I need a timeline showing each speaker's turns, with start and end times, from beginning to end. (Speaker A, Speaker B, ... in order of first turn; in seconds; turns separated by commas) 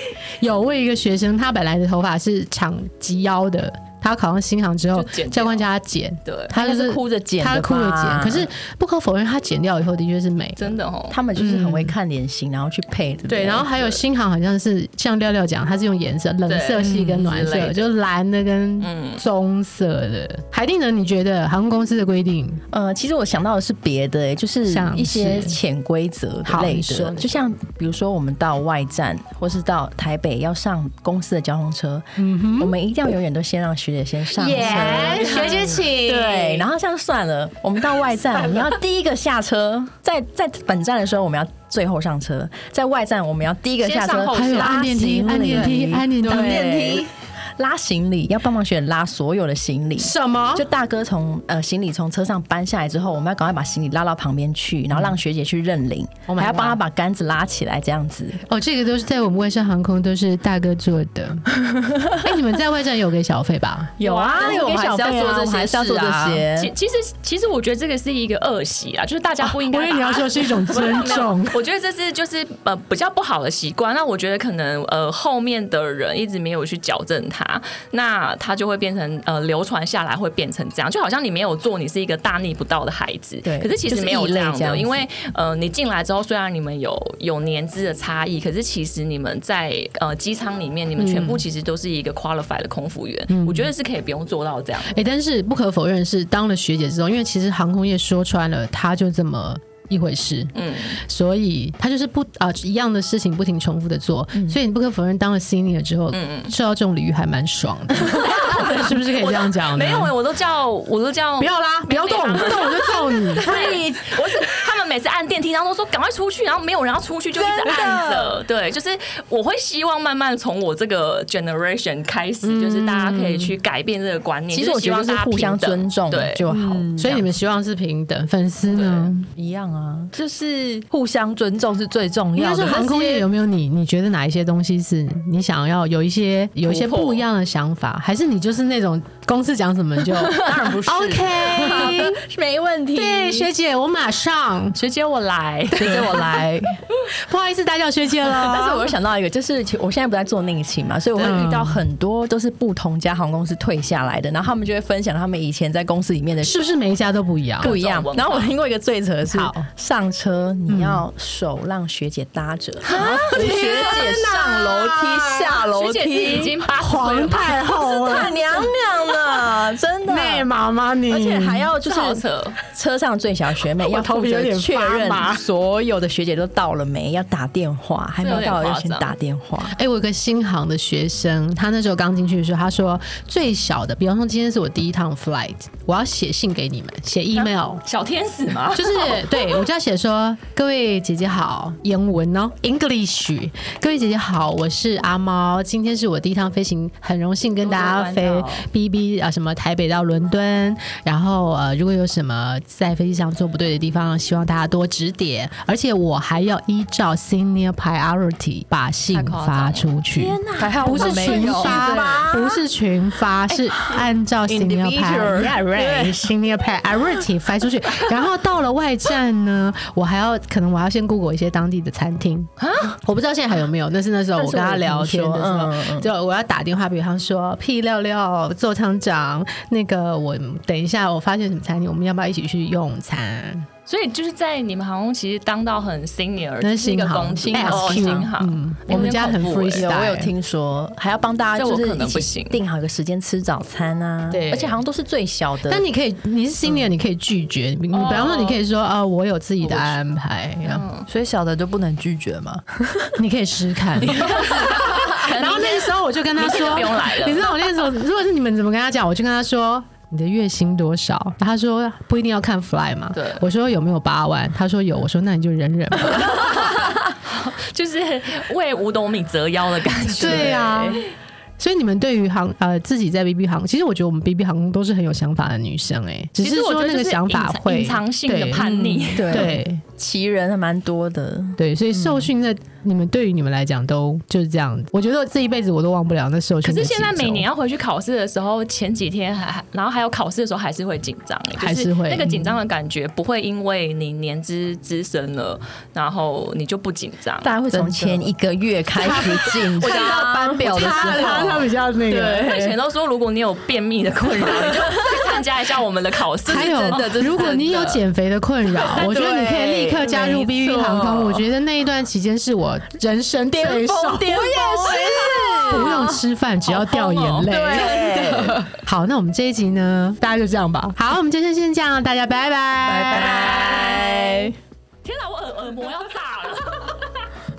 Speaker A: 0.4-10.8, Speaker B: 4.9-5.7, Speaker B: 6.3-6.5, Speaker C: 6.5-8.5, Speaker B: 10.6-11.2, Speaker C: 11.1-14.0, Speaker A: 11.3-11.9, Speaker A: 13.3-22.6, Speaker B: 16.5-17.9, Speaker B: 18.8-19.2, Speaker C: 22.7-58.4, Speaker A: 24.7-25.6, Speaker A: 26.4-27.4, Speaker A: 32.2-32.7, Speaker A: 34.4-36.7, Speaker B: 34.8-35.8, Speaker A: 38.4-38.7, Speaker B: 43.8-45.1, Speaker A: 44.3-47.0, Speaker D: 46.2-47.1, Speaker A: 50.0-50.7, Speaker A: 56.3-56.8, Speaker A: 58.5-64.6, Speaker C: 64.0-66.7, Speaker B: 64.0-64.7, Speaker D: 64.3-66.5, Speaker B: 66.6-95.0, Speaker A: 69.4-71.6, Speaker C: 83.4-85.0, Speaker A: 91.0-91.4, Speaker A: 93.3-93.7, Speaker A: 94.9-110.1, Speaker B: 100.5-101.0, Speaker B: 106.1-106.5, Speaker B: 108.1-126.4, Speaker A: 111.4-113.7, Speaker C: 113.4-114.4, Speaker C: 117.4-118.4, Speaker A: 122.4-123.6, Speaker C: 124.5-127.3, Speaker A: 126.5-129.3, Speaker D: 128.8-133.2, Speaker A: 132.3-142.2, Speaker B: 136.7-137.2, Speaker C: 140.3-143.5, Speaker D: 140.5-141.2, Speaker A: 142.9-144.8, Speaker B: 144.8-146.5, Speaker C: 145.7-146.7, Speaker A: 147.1-148.9, Speaker C: 148.2-156.6, Speaker A: 151.2-151.8, Speaker A: 156.4-157.7, Speaker B: 157.6-158.5, Speaker C: 157.6-166.6, Speaker A: 159.3-159.7, Speaker A: 160.7-161.1, Speaker A: 162.8-165.6, Speaker B: 165.7-167.8, Speaker A: 166.7-168.7, Speaker C: 167.8-170.5, Speaker A: 169.3-171.7, Speaker C: 171.1-179.8, Speaker B: 171.8-172.6, Speaker A: 173.8-175.4, Speaker B: 178.2-179.1, Speaker A: 179.7-187.8, Speaker B: 187.3-189.6, Speaker A: 188.7-233.7, Speaker B: 197.6-198.7, Speaker B: 209.1-209.9, Speaker C: 210.1-212.6, Speaker D: 210.6-212.4, Speaker D: 214.5-216.1, Speaker C: 214.5-216.1, Speaker B: 222.6-222.9, Speaker C: 224.4-226.1, Speaker B: 233.9-239.9, Speaker A: 236.6-240.3, Speaker C: 237.4-238.3, Speaker C: 239.7-245.9, Speaker B: 241.6-242.6, Speaker A: 244.3-244.8, Speaker A: 245.7-250.9, Speaker B: 247.9-248.6, Speaker D: 249.7-249.9, Speaker B: 250.6-251.1, Speaker D: 251.1-253.1, Speaker A: 253.2-266.7, Speaker B: 254.1-257.6, Speaker B: 263.1-263.4, Speaker B: 266.3-271.0, Speaker C: 270.1-271.0, Speaker A: 270.2-271.1, Speaker A: 271.6-279.8, Speaker B: 276.4-279.6, Speaker C: 278.6-282.1, Speaker A: 281.6-287.5, Speaker B: 286.6-297.9, Speaker A: 291.6-292.6, Speaker C: 297.4-302.8, Speaker A: 299.0-302.5, Speaker B: 299.8-308.0, Speaker C: 304.4-305.3, Speaker A: 306.5-324.1, Speaker C: 306.5-307.5, Speaker C: 308.8-311.1, Speaker D: 309.2-310.0, Speaker D: 310.9-311.2, Speaker C: 313.6-316.2, Speaker D: 314.8-315.6, Speaker B: 315.8-316.1, Speaker B: 316.7-318.6, Speaker C: 317.5-318.7, Speaker C: 322.9-324.6, Speaker B: 323.1-324.2, Speaker B: 325.0-327.3